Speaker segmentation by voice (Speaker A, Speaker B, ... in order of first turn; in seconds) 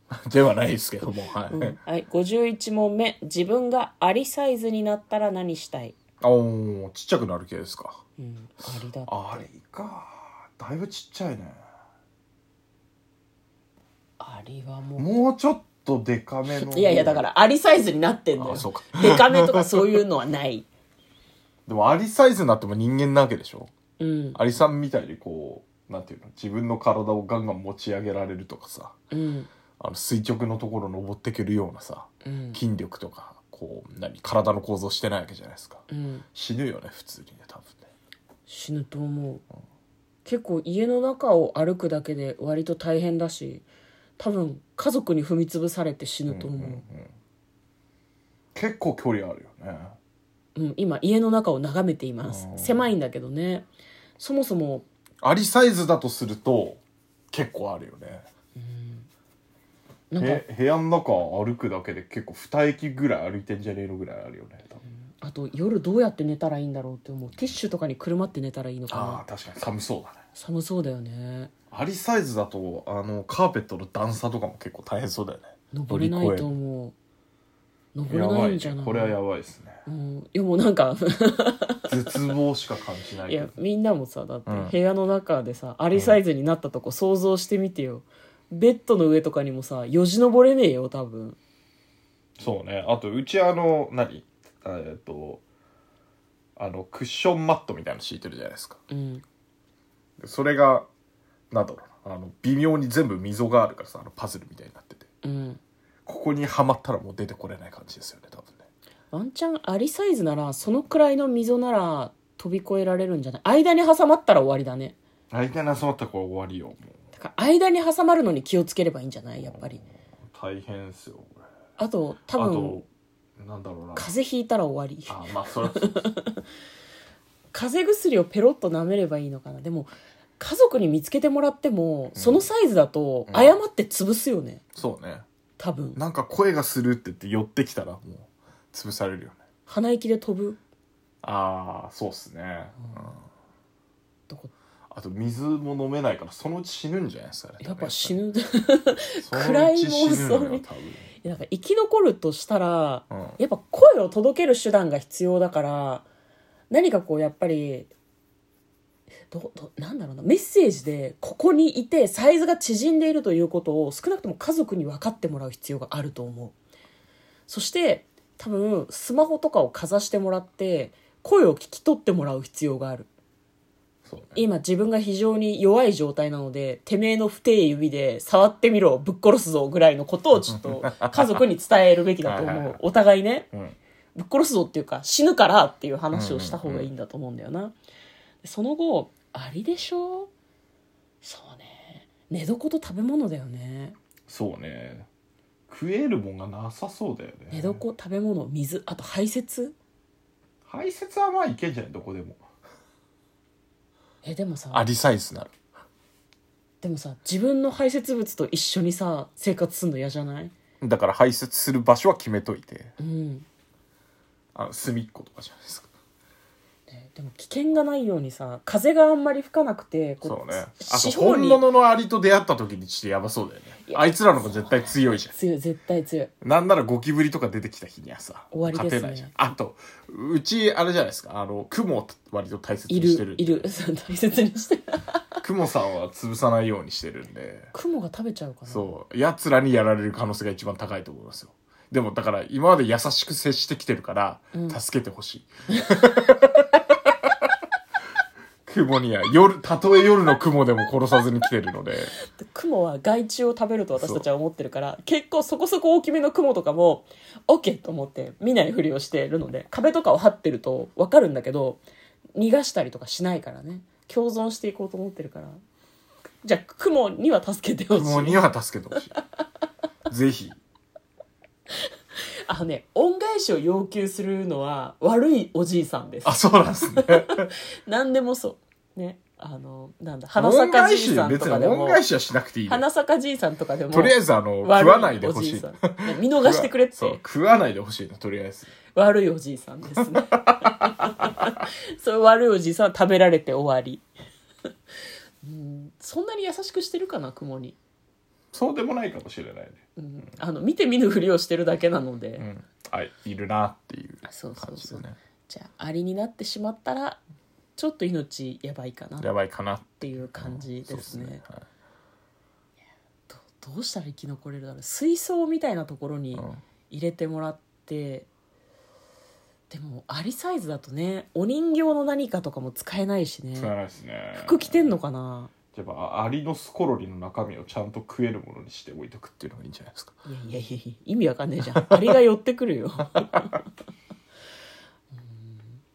Speaker A: 0.1-1.8, 6.2-8.0, 9.1-11.6, 15.0-17.2, 18.4-20.0, 21.7-23.7, 24.4-29.0, 29.8-37.9, 46.3-47.1, 48.5-50.0, 52.2-52.9, 55.2-58.2, 60.2-64.8, 68.9-70.2, 71.7-76.5, 78.1-79.8, 81.9-83.5, 84.5-84.8, 85.9-86.2, 92.4-95.4, 96.6-98.8, 100.2-100.9, 101.5-105.1, 106.1-108.6, 115.3-117.0, 119.4-121.4, 122.3-122.9, 123.4-124.1, 125.1-126.1, 132.2-132.5, 133.3-133.6, 134.8-135.2, 135.9-139.4, 141.2-143.2, 144.9-148.2, 149.2-151.1, 153.1-153.4, 174.1-174.4, 180.5-181.4, 182.2-182.8, 186.1-186.9, 194.3-195.1, 195.7-197.8, 200.7-202.4, 204.7-205.5, 210.8-212.9, 214.6-215.9, 220.2-225.3, 226.4-233.7, 235.4-237.7, 238.7-246.8, 248.7-252.1, 254.0-254.2, 267.9-269.1, 270.1-270.6, 276.2-277.5, 280.4-282.8, 283.9-288.7, 290.1-291.2, 298.5-299.8, 302.4-305.2, 309.2-311.6, 316.4-316.6, 323.6-324.9, 325.7-330.1
Speaker B: 1.5-6.0, 8.2-9.5, 14.2-15.1, 16.5-20.7, 24.0-24.4, 29.1-29.5, 32.2-32.6, 35.9-36.2, 38.5-39.4, 40.2-43.6, 44.2-46.8, 50.6-53.7, 54.2-54.9, 58.6-59.1, 60.1-60.4, 65.1-69.2, 70.3-71.5, 75.7-77.0, 77.9-79.2, 79.9-81.9, 83.3-91.4, 98.9-99.2, 105.2-105.6, 109.1-115.0, 117.2-119.8, 121.8-122.8, 124.0-126.4, 127.5-134.6, 135.6-136.0, 139.7-140.6, 142.8-143.1, 147.6-150.7, 151.2-156.1, 156.7-157.9, 159.3-166.6, 167.5-173.1, 174.3-183.5, 184.2-187.8, 188.4-190.3, 191.2-194.0, 197.5-199.8, 204.2-204.9, 206.8-210.5, 213.0-213.5, 216.9-221.6, 223.9-226.3, 228.5-229.3, 232.9-235.2, 237.7-238.9, 244.5-244.8, 252.3-261.8, 262.4-265.6, 266.4-268.4, 272.5-276.4, 277.0-282.0, 282.7-287.2, 288.9-294.1, 295.4-297.8, 300.0-302.5, 304.2-307.2, 307.8-309.3, 310.0-311.4, 313.3-318.3, 319.7-323.7, 324.4-325.5, 330.3-333.5, 335.1-335.8